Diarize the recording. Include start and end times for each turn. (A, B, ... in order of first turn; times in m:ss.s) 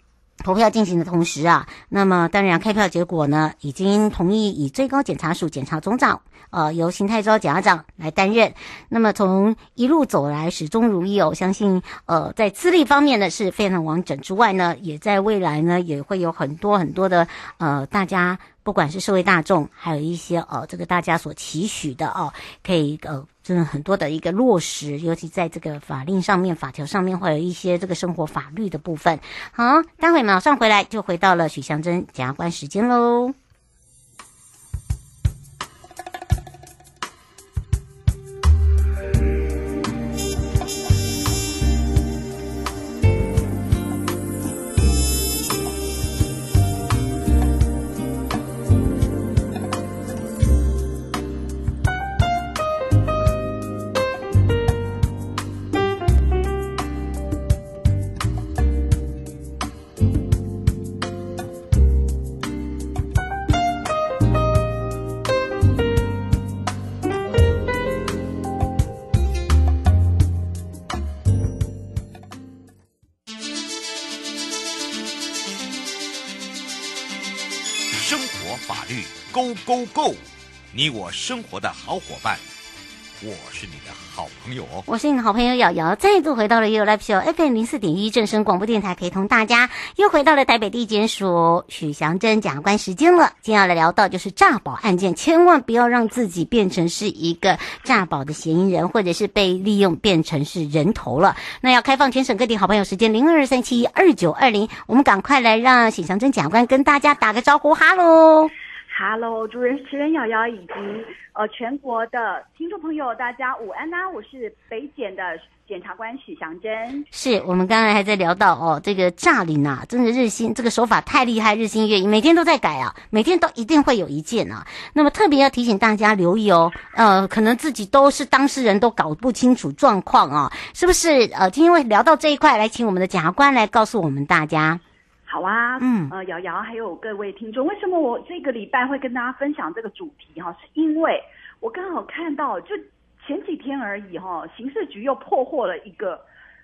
0:00.4-0:33.3 A
1:17.9-1:22.4 B
1:23.2-1:24.9 B
1:24.8-1:48.5 A
1:48.9-1:57.1 C
1:57.1-2:14.8 A
2:15.2-2:26.2 C
2:15.8-2:16.1 A